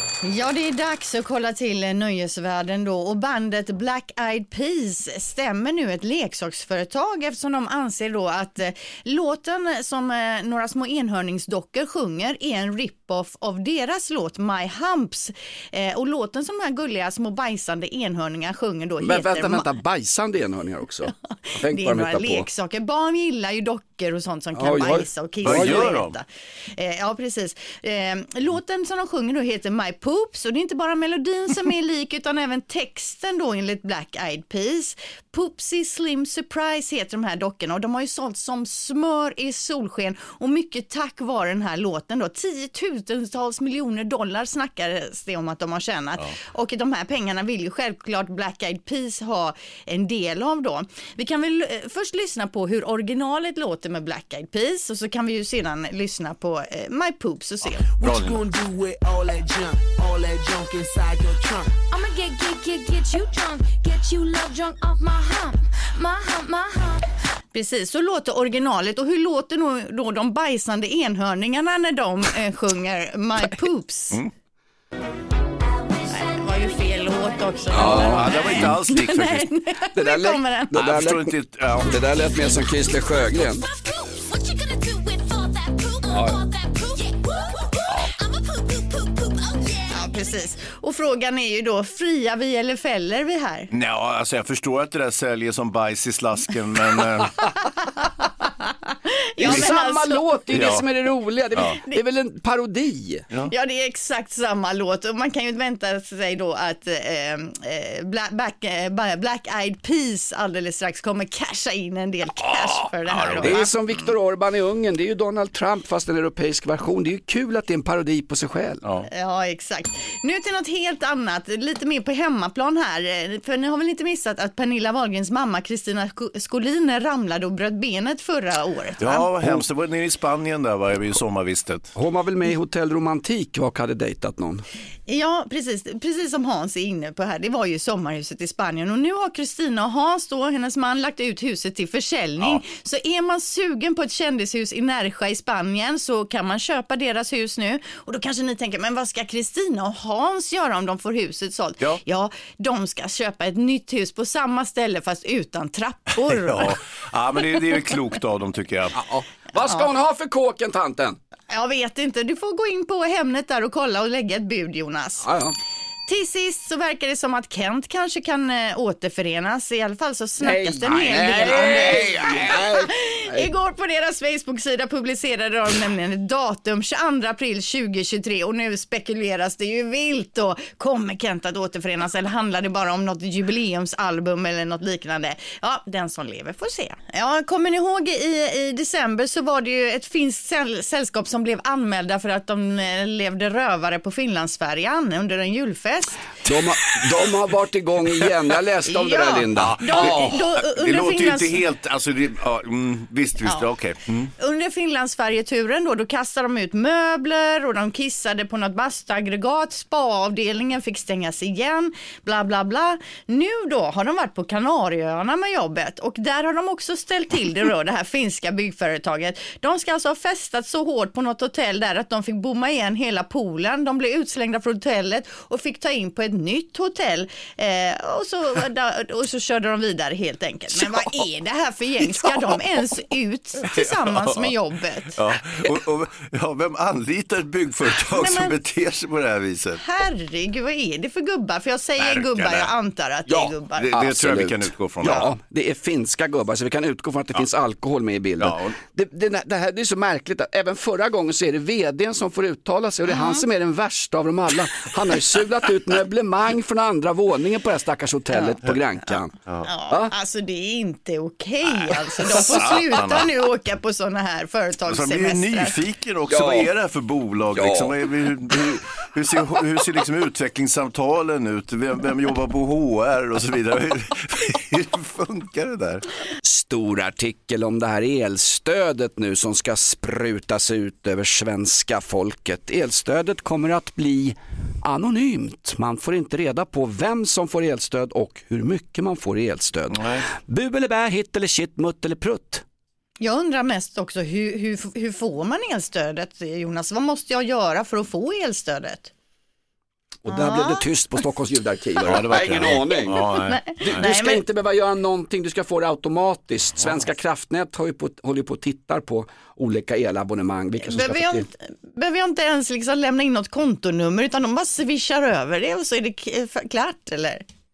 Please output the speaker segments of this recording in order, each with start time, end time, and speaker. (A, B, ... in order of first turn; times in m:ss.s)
0:00.2-0:19.6 A
0:19.0-0:22.5 B
0:21.7-0:57.8 A
0:24.5-0:25.9 B
0:25.4-0:26.1 C
0:58.0-1:01.7 D
0:58.0-0:58.4 C
1:01.9-1:07.1 E
1:07.5-1:14.2 A
1:15.7-1:18.4 E
1:16.1-1:20.7 A
1:17.7-1:18.7 B
1:17.8-1:19.5 C
1:19.9-1:23.6 B
1:20.7-1:21.9 C
1:21.9-1:30.4 E
1:26.1-1:26.4 B
1:27.9-1:28.1 C
1:29.9-1:33.7 A
1:33.7-1:37.4 C
1:39.3-1:40.2 A
1:39.4-1:43.2 B
1:40.5-1:40.8 C
1:43.5-1:53.7 A
1:53.1-1:53.6 C
1:53.4-1:58.8 B
1:59.1-2:09.3 A
2:09.0-2:11.9 C
2:11.9-2:14.6 B
2:15.1-2:36.8 A
2:36.3-2:39.0 C
2:38.9-2:41.2 B
2:41.5-2:45.3 A
2:45.2-2:45.5 B
2:46.1-3:16.2 A
2:50.4-2:53.5 B
2:51.4-2:52.0 C
3:16.4-3:20.4 B
3:18.9-3:21.6 A
3:19.6-3:24.3 C
3:24.4-3:55.1 A
3:50.7-3:51.2 B
3:52.0-3:52.6 B
3:53.8-3:54.5 C
3:55.1-3:59.8 C
3:58.1-3:58.5 A
3:59.8-4:03.9 A
4:02.0-4:02.7 C
4:03.3-4:19.3 B
4:03.8-4:05.3 C
4:08.4-4:08.7 C
4:13.1-4:13.4 A
4:19.6-4:25.8 A
4:22.4-4:23.3 C
4:24.9-4:36.0 C
4:26.3-4:26.7 B
4:27.5-4:28.0 B
4:36.4-4:52.6 B
4:49.9-4:50.2 C
4:53.2-4:59.1 A
5:00.2-5:11.4 B
5:00.3-5:00.9 A
5:02.0-5:04.0 C
5:03.2-5:04.4 A
5:10.8-5:17.4 A